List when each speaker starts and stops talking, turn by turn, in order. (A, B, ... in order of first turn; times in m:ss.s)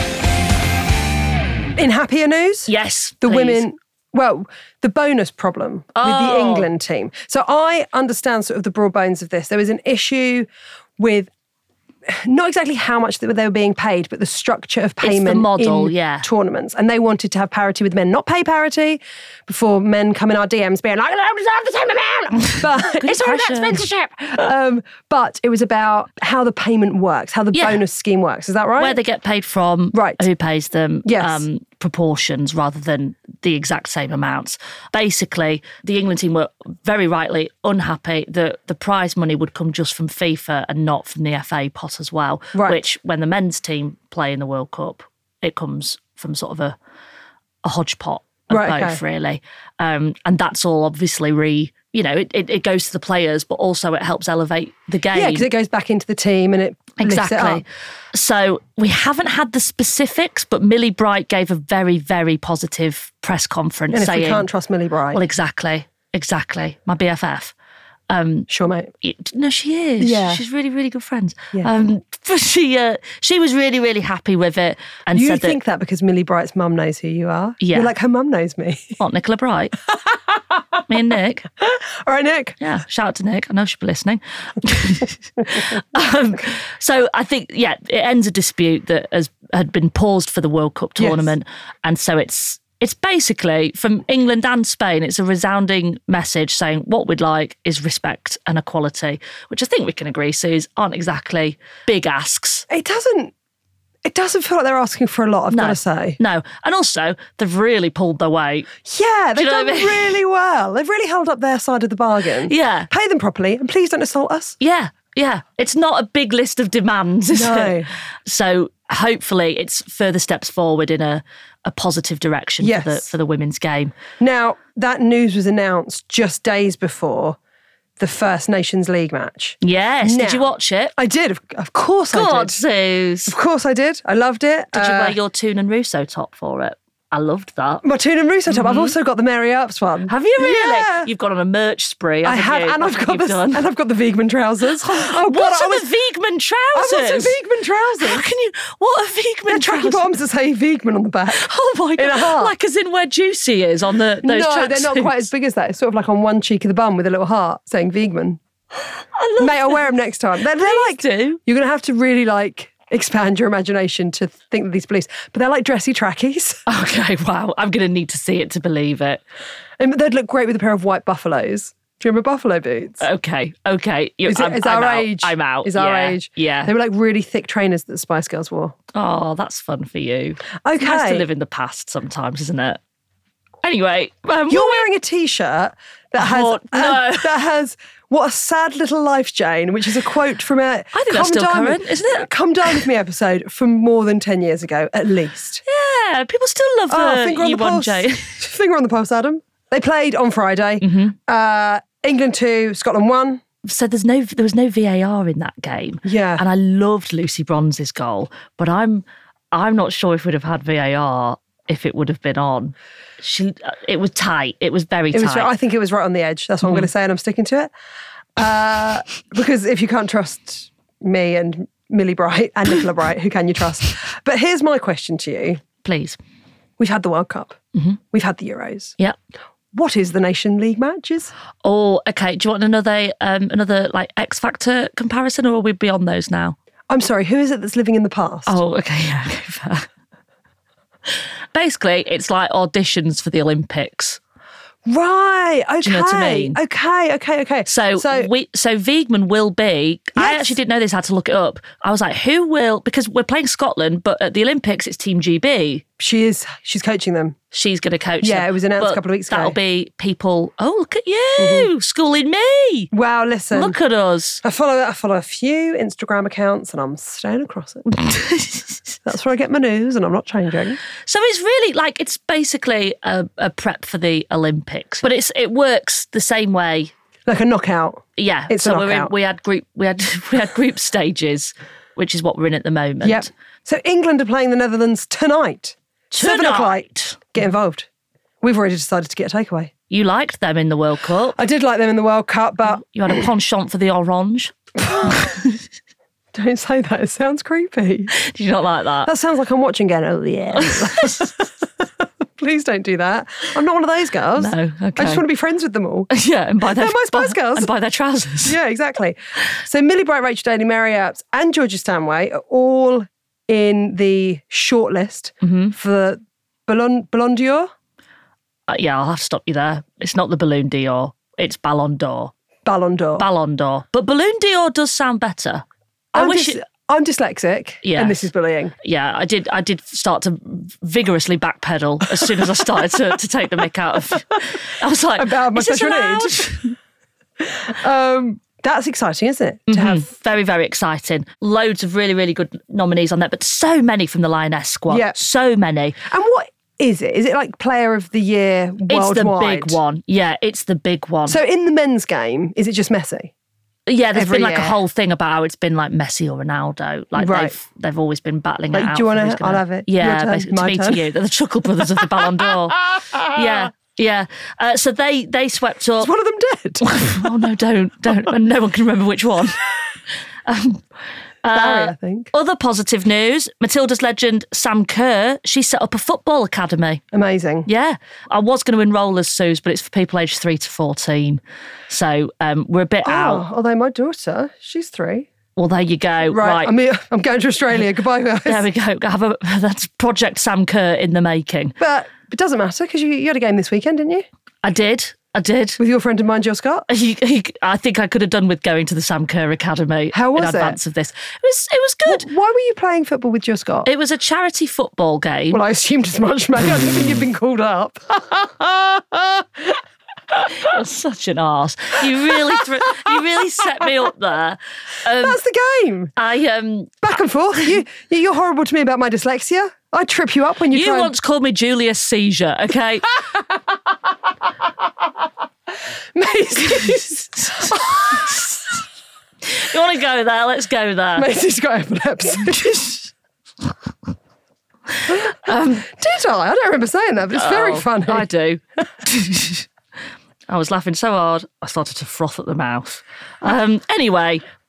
0:01.8-0:02.7 A
0:02.7-0:03.6 B
0:03.2-0:11.3 A
0:05.9-0:06.7 B
0:12.1-0:29.0 A
0:15.0-0:16.3 B
0:22.3-0:23.8 B
0:27.5-0:27.8 B
0:28.8-0:46.8 B
0:29.9-0:30.2 A
0:31.0-0:31.4 A
0:42.5-0:42.8 A
0:47.6-0:55.5 B
0:48.5-0:49.0 A
0:55.1-0:57.6 A
0:57.0-1:04.5 B
1:03.9-1:05.2 A
1:05.1-1:07.5 B
1:08.1-1:08.5 B
1:08.5-1:08.9 A
1:09.0-1:15.6 B
1:10.0-1:10.4 A
1:15.1-1:19.0 A
1:17.6-1:17.9 B
1:19.0-1:19.8 B
1:20.0-1:20.8 A
1:20.9-1:21.5 B
1:21.6-1:22.6 A
1:22.6-1:42.6 B
1:31.0-1:31.3 A
1:42.7-1:43.3 A
1:44.0-1:46.2 A
1:45.5-1:48.7 B
1:48.8-1:54.6 A
1:49.4-1:50.2 B
1:52.4-1:52.9 B
1:54.6-2:03.9 B
1:57.3-1:57.9 A
2:02.6-2:03.0 A
2:04.2-2:07.4 A
2:08.0-2:12.6 A
2:09.6-2:10.9 B
2:12.1-2:13.3 B
2:13.3-2:15.2 A
2:14.7-2:17.8 B
2:17.8-2:21.1 A
2:18.5-2:18.9 B
2:20.1-2:23.6 B
2:22.2-2:25.9 A
2:24.8-2:27.4 B
2:26.7-2:28.2 A
2:28.0-2:30.1 B
2:29.5-2:32.5 A
2:31.3-2:35.3 B
2:34.2-2:38.4 A
2:39.1-2:39.8 B
2:39.4-2:46.6 A
2:40.6-2:41.4 B
2:46.7-2:49.2 B
2:49.8-2:53.0 A
2:53.0-2:56.7 B
2:54.2-2:58.7 A
2:58.9-3:02.8 B
3:00.6-3:01.2 A
3:03.6-3:04.9 B
3:04.5-3:15.6 A
3:06.2-3:07.3 B
3:10.9-3:12.8 B
3:15.6-3:18.4 B
3:16.9-3:23.4 A
3:20.8-3:21.1 B
3:23.6-3:35.5 B
3:26.0-3:26.4 A
3:35.1-3:37.7 A
3:38.4-3:45.6 A
3:45.8-3:46.2 B
3:46.8-3:47.6 A
3:48.1-3:49.0 A
3:49.7-3:51.3 A
3:51.6-3:56.6 B
3:56.9-3:58.6 A
3:58.5-3:59.9 B
4:01.5-4:04.2 B
4:04.8-4:08.3 A
4:05.8-4:06.6 B
4:07.6-4:15.8 B
4:10.2-4:10.5 A
4:16.0-4:17.4 A
4:17.5-4:22.9 B
4:18.2-4:19.6 A
4:21.4-4:21.7 A
4:22.9-4:23.8 A
4:23.5-4:24.4 B
4:24.4-4:27.9 A
4:27.9-4:29.0 B
4:29.0-4:30.8 A
4:31.0-4:36.9 B
4:37.3-4:39.1 A
4:38.2-4:43.3 B
4:43.0-4:47.9 A
4:46.1-4:47.2 B
4:48.4-4:49.7 A
4:49.9-4:51.4 B
4:51.4-4:53.2 A
4:52.7-4:55.6 B
4:54.8-4:55.4 A
4:56.3-4:58.1 A
4:58.1-4:59.1 B
4:59.0-5:06.1 A
5:00.6-5:01.3 B
5:04.4-5:05.2 B
5:06.1-5:08.6 B
5:06.6-5:07.7 A
5:08.4-5:17.7 A
5:15.4-5:15.7 B
5:18.7-5:22.3 B
5:22.6-5:23.2 A
5:23.2-5:26.6 B
5:26.1-5:28.7 A
5:27.8-5:28.3 B
5:28.8-5:36.7 B
5:35.2-5:36.5 A
5:37.4-5:40.1 A
5:39.7-5:46.0 B
5:44.9-5:45.2 A
5:46.0-5:49.8 A
5:48.9-5:51.4 B
5:51.3-5:53.3 A
5:53.9-6:06.1 B
5:54.1-5:54.8 A
5:57.2-5:57.5 A
5:58.7-6:01.0 A
6:06.0-6:06.8 A
6:06.8-6:09.6 B
6:10.4-6:10.8 B
6:11.4-6:17.0 B
6:11.5-6:12.3 A
6:17.1-6:17.7 A
6:17.6-6:23.4 B
6:23.0-6:25.3 A
6:25.6-6:26.7 B
6:26.3-6:28.6 A
6:28.4-6:31.8 B
6:31.8-6:34.2 A
6:34.6-6:35.8 B
6:35.8-6:36.9 A
6:36.9-6:42.3 B
6:40.1-6:40.8 A
6:42.0-6:43.9 A
6:43.8-6:45.6 B
6:45.5-6:49.8 A
6:50.5-6:55.4 B
6:52.3-6:53.1 A
6:55.1-6:56.1 A
6:56.2-6:57.0 B
6:57.0-7:01.1 A
7:00.7-7:03.2 B
7:06.1-7:08.4 A
7:06.6-7:08.6 B
7:09.4-7:11.3 B
7:11.2-7:13.0 A
7:15.0-7:15.9 B
7:15.1-7:18.3 A
7:17.3-7:19.7 B
7:20.5-7:24.4 B